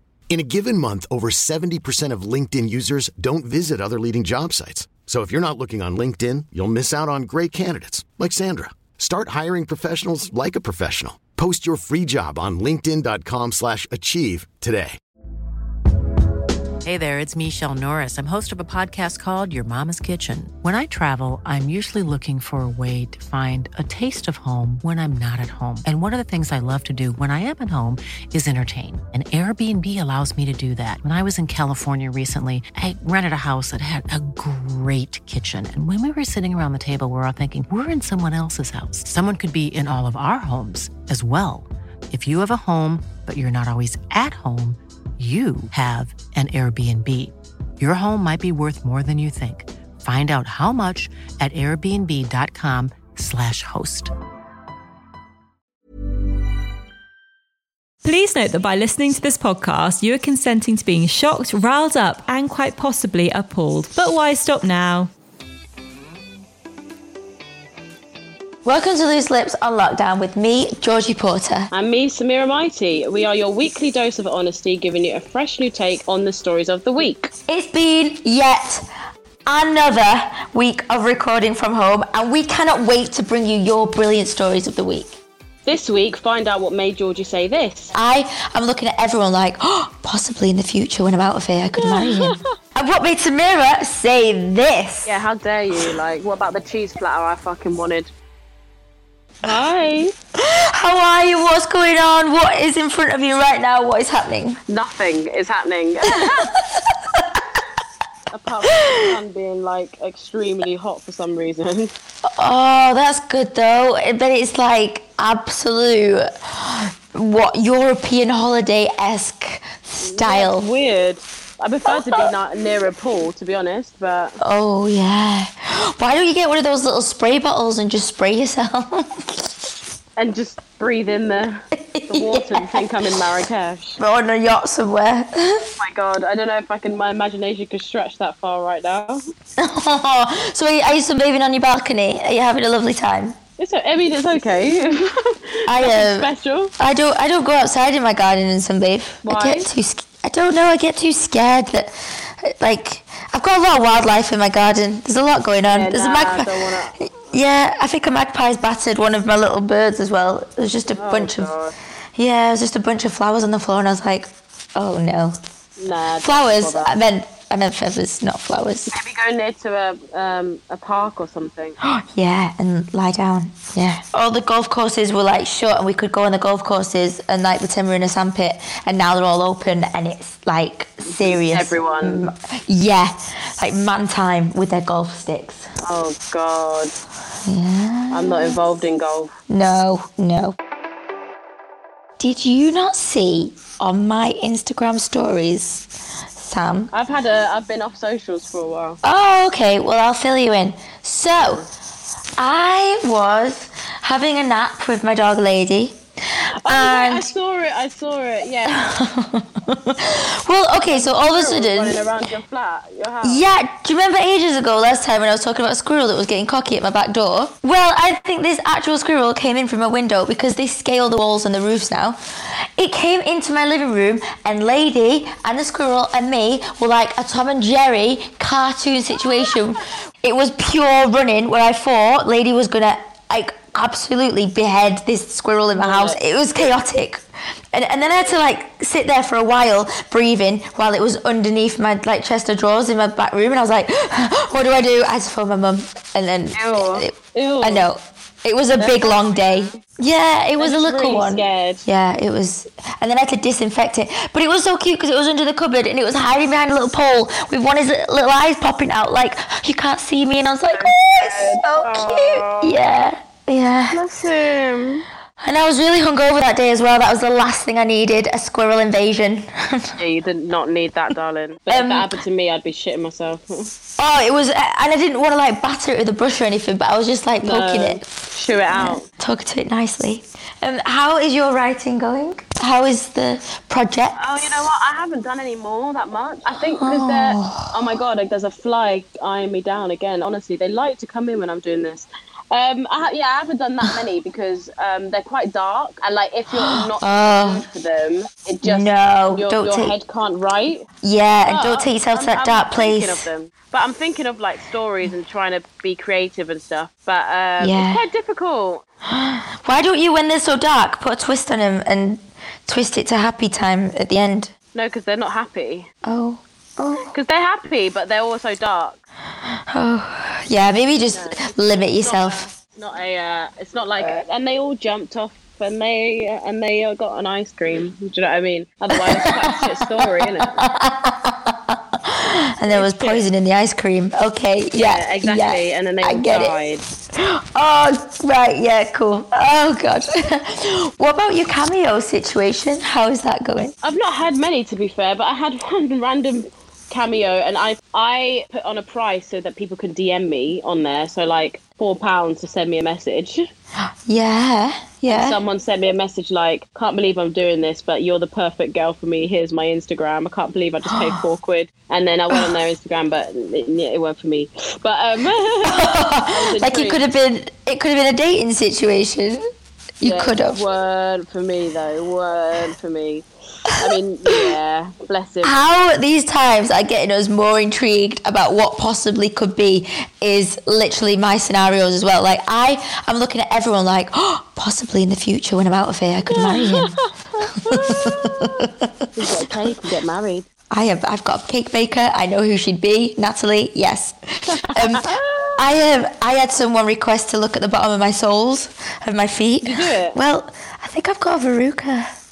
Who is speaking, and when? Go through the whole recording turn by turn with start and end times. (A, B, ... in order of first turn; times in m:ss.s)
0:00.3-0:15.0 A
0:16.8-0:54.1 B
0:58.0-1:05.1 C
1:08.6-1:11.7 D
1:11.7-1:17.3 E
1:17.5-1:18.9 D
1:19.5-1:25.2 D
1:25.7-1:27.9 E
1:27.9-1:35.2 D
1:31.8-1:32.5 E
1:35.1-1:38.1 E
1:39.4-1:40.1 E
1:40.4-1:44.6 D
1:44.7-1:46.5 E
1:46.4-1:47.4 D
1:48.3-1:51.9 E
1:48.8-1:49.1 D
1:52.3-2:00.7 D
2:00.0-2:04.4 E
2:01.9-2:02.3 D
2:04.4-2:09.7 D
2:10.2-2:14.0 E
2:11.9-2:13.0 D
2:14.0-2:15.7 D
2:15.8-2:19.3 E
2:19.6-2:23.4 D
2:23.6-2:26.7 E
2:25.7-2:36.5 D
2:29.2-2:29.7 E
2:33.8-2:34.0 E
2:35.7-2:37.0 E
2:37.0-2:41.5 D
2:41.0-2:41.7 E
2:42.2-2:45.4 D
2:45.8-2:47.0 E
2:46.2-2:48.9 D
2:48.9-2:51.8 E
2:51.8-3:05.7 D
3:01.0-3:02.3 E
3:05.8-3:06.9 E
3:07.4-3:08.6 D
3:08.1-3:09.3 E
3:09.5-3:10.6 D
3:12.2-3:16.9 D
3:16.9-3:19.0 E
3:19.0-3:21.6 D
3:21.4-3:21.6 E
3:22.4-3:27.3 D
3:26.6-3:28.8 E
3:28.7-3:32.0 D
3:30.8-3:33.4 E
3:33.2-3:42.2 D
3:42.8-4:24.0 D
3:55.7-3:56.2 E
3:58.1-3:58.3 E
4:06.6-4:07.9 E
4:08.8-4:09.8 E
4:10.6-4:11.9 E
4:20.7-4:22.9 E
4:23.9-4:25.1 E
4:25.4-4:30.0 D
4:30.0-4:33.7 E
4:31.7-4:32.1 D
4:34.0-4:38.0 D
4:37.4-4:39.1 E
4:38.7-4:44.7 D
4:44.2-5:00.9 E
4:46.8-4:47.8 D
4:56.5-4:57.6 D
4:58.6-4:59.9 D
5:01.0-5:03.3 D
5:01.5-5:08.8 E
5:07.6-5:08.0 D
5:09.1-5:14.5 D
5:14.7-5:15.9 E
5:16.0-5:17.1 D
5:17.1-5:19.0 E
5:19.5-5:22.5 D
5:21.1-5:30.6 E
5:24.0-5:24.2 D
5:28.9-5:36.5 D
5:32.7-5:33.2 E
5:34.8-5:36.8 E
5:37.2-5:43.7 D
5:43.8-5:53.5 E
5:54.1-5:55.4 D
5:55.1-6:07.0 E
6:00.9-6:01.2 D
6:05.6-6:09.5 D
6:10.0-6:10.6 D
6:10.0-6:15.6 E
6:15.4-6:27.0 D
6:26.3-6:30.5 E
6:27.6-6:29.7 D
6:30.7-6:42.1 D
6:34.5-6:35.6 E
6:39.6-6:40.2 E